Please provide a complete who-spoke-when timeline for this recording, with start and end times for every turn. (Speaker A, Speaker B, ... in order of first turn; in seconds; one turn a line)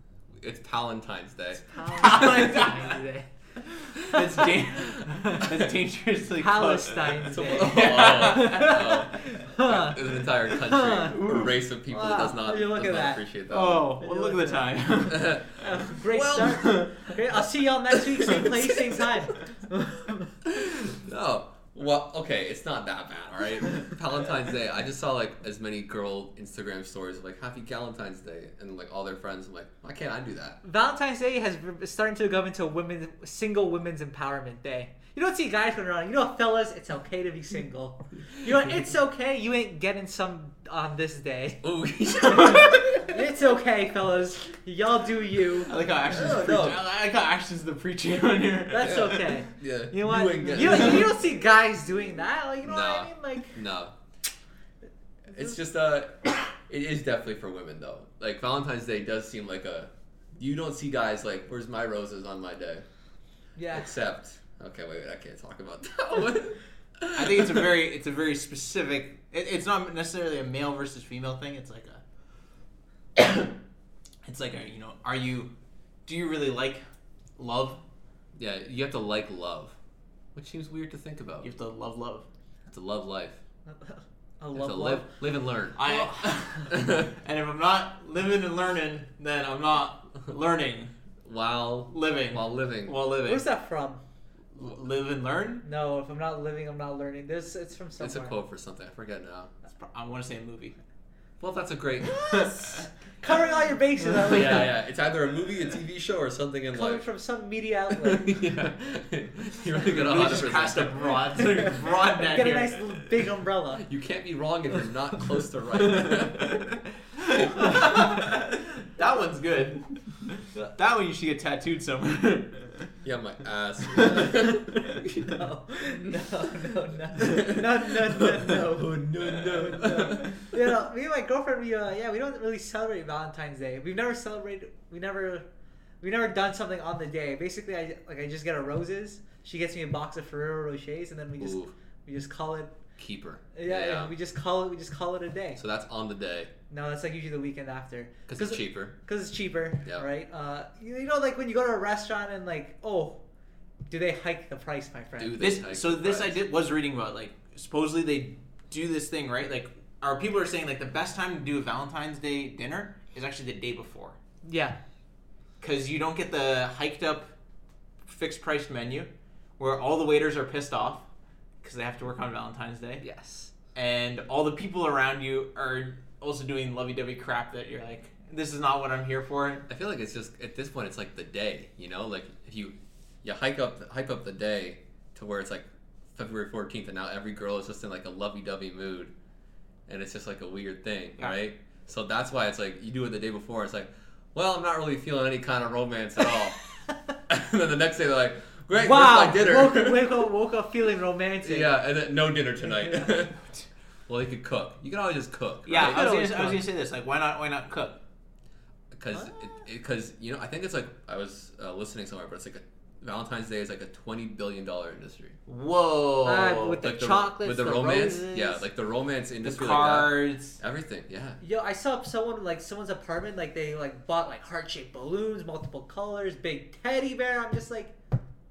Speaker A: 0.4-1.8
Speaker B: 1.7-3.3
Speaker C: 1.9-3.0
Speaker C: 3.9-8.8
Speaker B: 3.9-5.5
Speaker B: 6.4-13.2
Speaker A: 7.2-13.9
Speaker C: 13.5-17.1
Speaker B: 14.0-14.8
Speaker A: 15.1-16.6
Speaker B: 15.3-20.3
Speaker A: 17.9-18.3
Speaker A: 20.4-30.6
Speaker B: 30.6-41.6
Speaker A: 41.6-43.1
Speaker B: 42.2-45.7
Speaker C: 45.6-49.4
Speaker A: 46.1-46.8
Speaker B: 48.7-53.6
Speaker A: 48.8-51.2
Speaker C: 50.5-51.0
Speaker A: 52.6-53.9
Speaker A: 55.3-62.8
Speaker B: 63.5-63.9
Speaker A: 63.7-67.7
Speaker C: 67.1-72.0
Speaker C: 73.2-73.5
Speaker C: 74.2-75.5
Speaker C: 76.0-76.8
Speaker C: 77.4-77.8
Speaker A: 78.3-79.8
Speaker A: 80.3-81.5
Speaker C: 81.4-82.3
Speaker A: 82.7-83.4
Speaker B: 83.7-85.1
Speaker A: 84.5-85.9
Speaker C: 85.8-90.9
Speaker A: 86.7-87.1
Speaker A: 91.2-92.9
Speaker C: 91.9-93.4
Speaker B: 93.2-94.0
Speaker C: 94.5-95.6
Speaker B: 95.6-98.3
Speaker A: 98.0-99.5
Speaker C: 99.7-100.7
Speaker A: 101.4-102.5
Speaker C: 102.1-102.8
Speaker B: 102.3-104.7
Speaker C: 104.1-104.6
Speaker A: 104.2-107.0
Speaker B: 106.7-108.3
Speaker A: 107.9-111.1
Speaker C: 109.8-113.1
Speaker B: 111.4-113.8
Speaker A: 113.8-116.6
Speaker C: 115.7-122.9
Speaker A: 123.0-125.3
Speaker C: 123.9-124.2
Speaker B: 124.3-135.4
Speaker A: 127.2-130.4
Speaker B: 136.0-142.8
Speaker A: 141.4-141.7
Speaker A: 143.0-144.1
Speaker B: 143.5-145.6
Speaker A: 145.6-146.5
Speaker B: 146.7-153.2
Speaker A: 148.3-148.9
Speaker B: 153.9-155.3
Speaker A: 155.2-156.4
Speaker C: 155.4-164.2
Speaker B: 164.4-164.8
Speaker C: 165.6-167.3
Speaker C: 168.0-171.0
Speaker C: 171.6-173.0
Speaker B: 173.0-173.5
Speaker C: 173.7-179.6
Speaker A: 179.7-189.1
Speaker A: 189.9-196.6
Speaker A: 197.3-200.3
Speaker B: 198.7-201.8
Speaker A: 201.4-203.4
Speaker B: 202.7-203.1
Speaker A: 204.1-206.1
Speaker C: 205.7-208.0
Speaker B: 205.7-206.6
Speaker A: 208.9-215.4
Speaker B: 209.1-209.5
Speaker C: 215.5-216.8
Speaker B: 216.2-218.6
Speaker A: 216.8-221.4
Speaker C: 219.4-220.6
Speaker B: 221.4-227.9